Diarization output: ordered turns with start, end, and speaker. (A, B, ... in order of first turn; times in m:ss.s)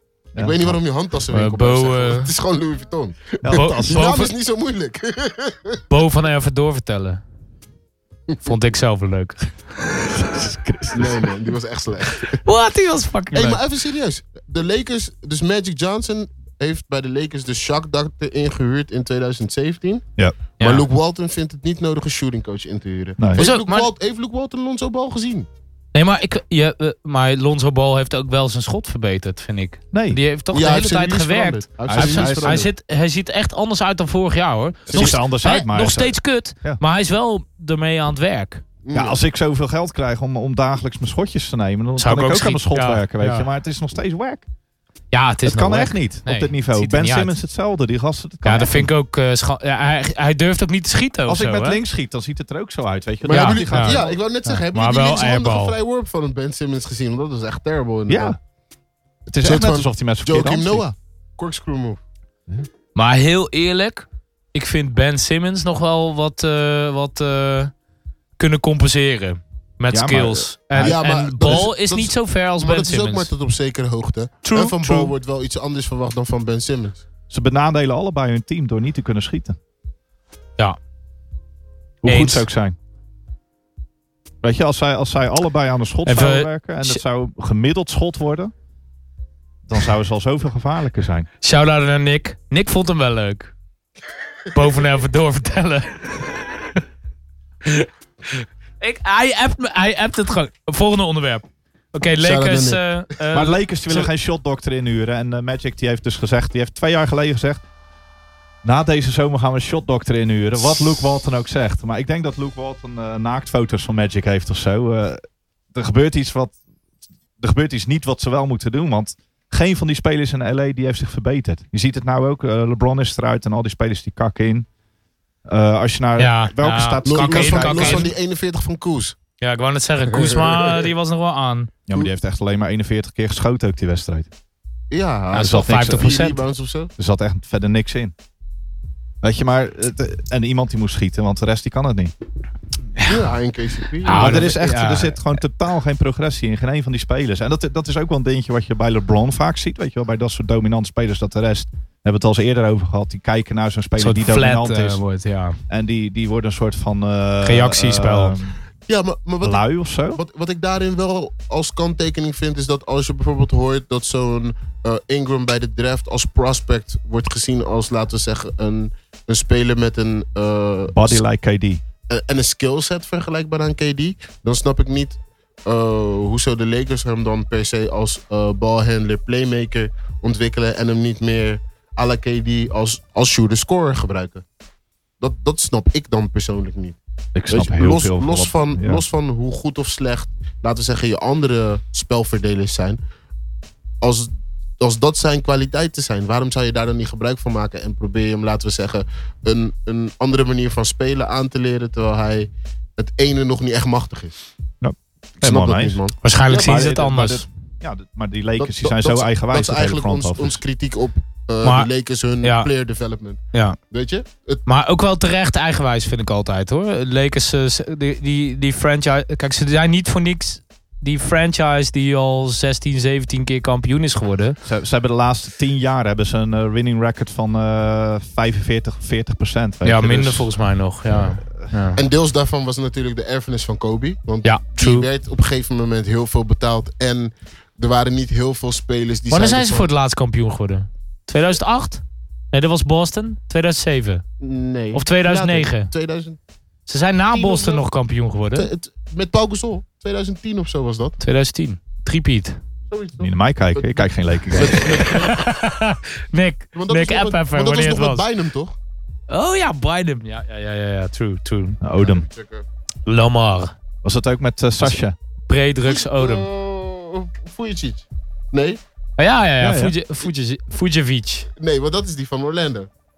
0:00.4-0:00.8 A
0:00.4-0:05.8 B
0:01.3-0:02.3 C
0:03.4-0:04.3 A
0:03.5-0:04.3 C
0:05.9-0:07.2 C
0:08.4-0:09.9 C
0:10.0-0:11.3 A
0:10.9-0:12.4 B
0:12.4-0:13.6 C
0:13.3-0:20.0 B
0:20.6-0:20.9 C
0:20.6-0:25.5 B
0:23.2-0:23.4 A
0:23.4-0:23.9 C
0:25.9-0:38.6 C
0:29.9-0:30.2 A
0:30.5-0:32.7 B
0:31.9-0:32.7 A
0:34.9-0:36.8 A
0:38.8-0:39.2 B
0:38.9-0:44.5 A
0:42.0-0:43.5 C
0:45.1-0:47.3 C
0:45.4-0:48.9 A
0:48.4-0:51.8 C
0:51.3-0:54.2 A
0:53.2-0:58.4 B
0:53.3-0:55.8 C
0:58.1-0:58.4 A
0:59.3-1:00.8 A
0:59.4-1:02.0 B
1:03.0-1:07.7 C
1:08.4-1:13.3 C
1:09.9-1:11.0 A
1:10.8-1:17.0 B
1:14.4-1:15.1 C
1:17.3-1:19.6 A
1:22.0-1:22.8 A
1:22.1-1:22.5 C
1:24.4-1:28.5 A
1:26.1-1:27.0 C
1:29.7-1:31.3 A
1:31.4-1:33.5 C
1:34.5-1:36.8 C
1:37.6-1:44.1 C
1:42.2-1:42.8 B
1:43.3-1:47.6 A
1:48.6-1:55.2 A
1:55.7-1:56.5 A
1:57.4-2:04.7 A
2:05.5-2:08.1 A
2:06.2-2:08.1 C
2:07.0-2:09.2 B
2:09.4-2:11.7 C
2:10.1-2:10.8 B
2:11.9-2:14.3 A
2:14.9-2:16.9 B
2:15.3-2:16.4 C
2:15.4-2:16.2 A
2:17.0-2:18.1 A
2:19.2-2:22.1 A
2:23.0-2:24.6 B
2:24.0-2:25.2 C
2:24.1-2:35.0 A
2:34.0-2:35.6 C
2:35.7-2:38.6 A
2:37.4-2:38.4 C
2:38.9-2:51.2 B
2:39.4-2:40.2 A
2:50.9-2:51.8 A
2:52.1-3:04.4 B
3:05.2-3:07.0 B
3:07.4-3:09.0 A
3:07.5-3:13.0 B
3:14.0-3:24.4 B
3:24.8-3:30.6 A
3:25.4-3:26.8 B
3:26.2-3:27.5 C
3:28.6-3:34.6 B
3:31.6-3:31.9 C
3:32.4-3:32.7 C
3:34.7-3:44.6 C
3:44.6-3:50.5 A
3:49.8-3:52.0 C
3:51.1-3:51.5 A
3:52.0-3:59.9 B
3:54.4-3:55.1 C
3:59.3-4:04.2 C
4:04.4-4:06.4 B
4:04.9-4:05.9 C
4:06.9-4:08.7 C
4:07.3-4:07.8 B
4:08.6-4:11.2 B
4:11.2-4:12.6 C
4:12.9-4:15.5 B
4:13.2-4:15.1 A
4:14.6-4:18.3 C
4:16.8-4:18.8 B
4:19.3-4:21.8 C
4:21.8-4:22.3 A
4:22.0-4:22.6 B
4:23.1-4:23.7 C
4:24.0-4:25.2 A
4:25.5-4:26.5 C
4:25.9-4:28.8 B
4:29.2-4:31.5 C
4:29.6-4:30.0 A
4:31.6-4:32.9 B